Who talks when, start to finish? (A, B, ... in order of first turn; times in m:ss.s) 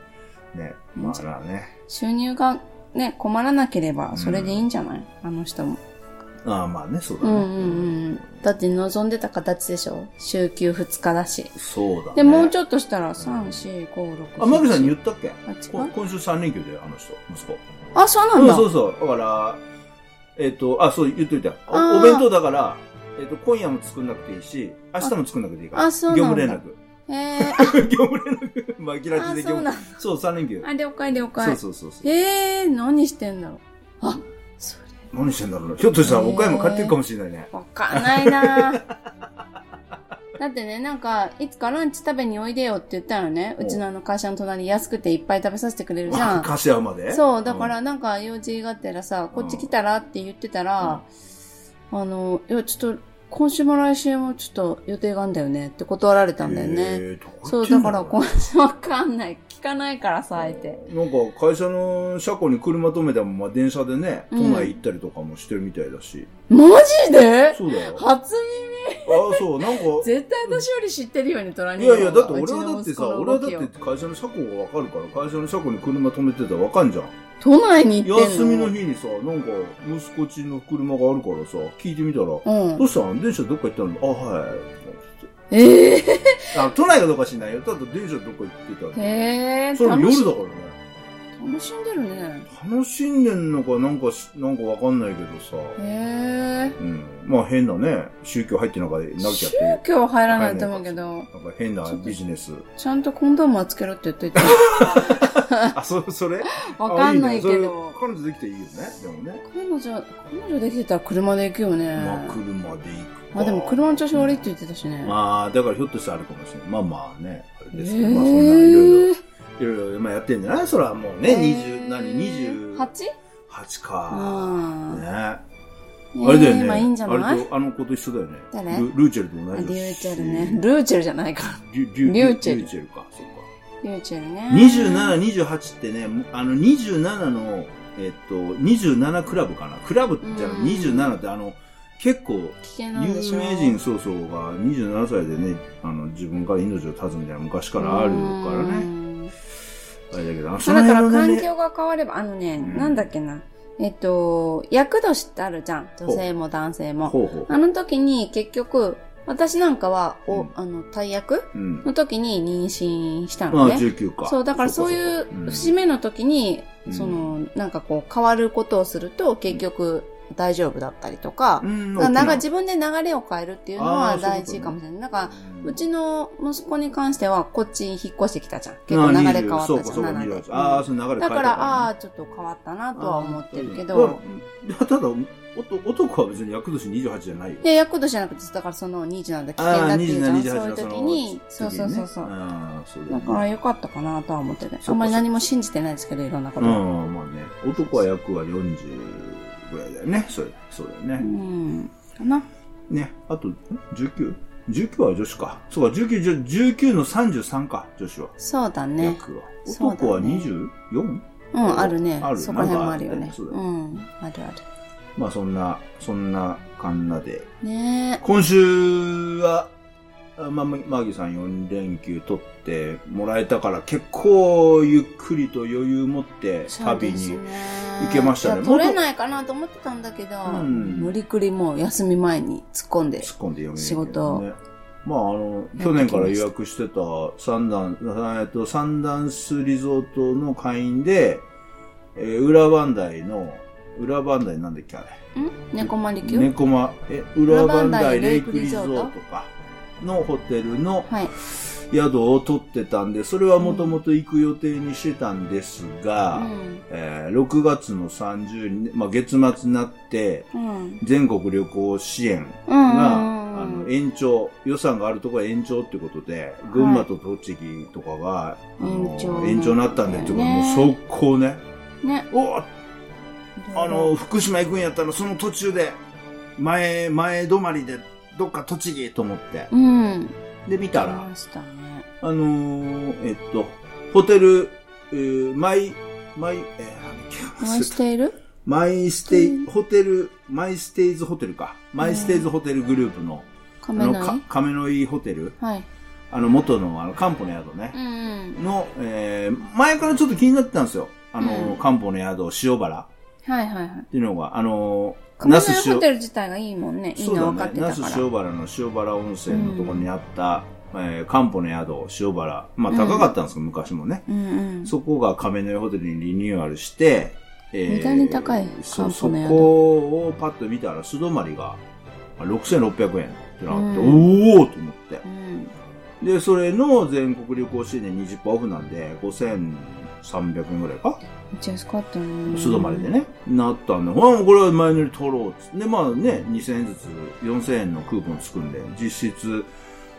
0:00.5-0:01.7 A
0:01.0-0:01.2 B
0:01.9-0:05.8 B
0:04.1-0:04.6 A
0:06.4-0:08.3 A
0:07.2-0:11.6 B
0:11.6-0:12.5 A
0:12.1-0:15.9 B
0:13.2-0:13.5 A
0:14.4-0:17.6 A
0:17.9-0:18.7 B
0:18.3-0:19.6 A
0:20.4-0:26.8 A
0:21.7-0:22.2 B
0:25.7-0:27.8 B
0:27.4-0:30.7 A
0:29.1-0:29.9 B
0:30.6-0:34.9 B
0:31.4-0:32.1 A
0:35.1-0:38.9 A
0:36.0-0:36.9 B
0:37.5-0:38.8 B
0:40.4-0:46.5 B
0:46.1-0:47.7 A
0:47.1-0:51.1 B
0:49.3-0:49.7 A
0:51.9-1:00.8 B
0:56.4-0:58.2 A
1:00.3-1:06.3 A
1:04.3-1:04.7 B
1:06.5-1:13.7 B
1:07.5-1:08.0 A
1:09.0-1:10.6 A
1:11.8-1:17.1 A
1:17.4-1:18.7 B
1:18.0-1:25.3 A
1:22.4-1:22.9 B
1:25.5-1:26.5 B
1:26.5-1:29.1 A
1:28.9-1:30.4 B
1:29.7-1:30.8 A
1:31.4-1:32.5 B
1:32.5-1:35.8 A
1:35.8-1:36.8 B
1:36.8-1:42.6 A
1:39.2-1:41.3 B
1:41.8-1:42.2 B
1:42.8-1:45.7 B
1:44.3-1:49.4 A
1:46.5-1:48.0 B
1:49.4-1:52.4 B
1:51.9-1:54.4 A
1:53.3-1:55.1 B
1:55.0-2:02.9 A
1:57.7-1:59.2 B
2:01.2-2:03.1 B
2:03.5-2:05.4 A
2:04.1-2:05.0 B
2:06.1-2:07.5 B
2:06.2-2:10.6 A
2:08.5-2:08.9 B
2:09.5-2:12.7 B
2:11.6-2:13.5 A
2:13.8-2:15.2 B
2:14.5-2:28.9 A
2:20.2-2:21.2 B
2:22.6-2:23.8 B
2:27.8-2:29.3 B
2:30.1-2:31.5 A
2:30.6-3:04.2 B
2:32.6-2:33.0 A
2:37.0-2:37.5 A
2:41.5-2:41.8 A
2:43.5-2:45.7 A
2:46.9-2:47.3 A
2:51.6-2:52.4 A
2:53.8-2:54.8 A
2:55.3-2:55.8 A
2:58.9-3:01.9 A
3:03.0-3:07.6 A
3:07.6-3:12.3 B
3:09.6-3:13.4 A
3:13.1-3:16.8 B
3:14.8-3:15.2 A
3:16.6-3:21.2 A
3:21.2-3:22.4 B
3:22.9-3:28.3 A
3:28.4-3:30.5 B
3:29.0-3:33.6 A
3:31.5-3:34.6 B
3:35.2-3:37.4 A
3:37.6-3:38.2 B
3:38.2-3:39.7 A
3:40.4-3:49.0 A
3:46.7-3:54.4 B
3:50.4-3:51.1 A
3:53.2-4:01.4 A
3:55.8-3:56.4 B
4:02.1-4:05.2 A
4:05.3-4:06.5 B
4:05.8-4:31.6 A
4:07.5-4:09.1 B
4:13.6-4:14.0 B
4:16.3-4:16.8 B
4:20.5-4:21.0 B
4:22.7-4:23.9 B
4:26.7-4:27.1 B
4:28.8-4:30.9 B
4:32.0-4:32.3 B
4:32.3-4:32.7 A
4:33.6-4:34.1 B
4:33.7-4:36.0 A
4:36.6-4:39.7 A
4:39.7-4:40.4 B
4:40.6-4:41.3 A
4:40.9-4:42.0 B
4:42.2-4:48.0 A
4:47.6-4:48.4 B
4:48.6-4:55.6 A
4:49.3-4:49.6 B
4:52.0-4:52.4 B
4:53.8-4:54.4 B
4:55.6-4:55.9 B
4:56.3-4:58.0 A
4:57.9-4:58.6 B
4:58.6-5:03.1 A
5:01.4-5:01.8 B
5:03.4-5:04.1 B
5:04.1-5:06.0 A
5:05.4-5:08.2 B
5:07.2-5:14.2 A
5:09.5-5:10.1 B
5:12.9-5:13.3 B
5:14.3-5:14.9 B
5:14.8-5:21.8 A
5:17.9-5:19.7 B
5:22.4-5:25.2 A
5:23.7-5:24.3 B
5:25.2-5:25.7 B
5:26.2-5:31.2 A
5:31.5-5:33.1 B
5:32.5-5:39.7 A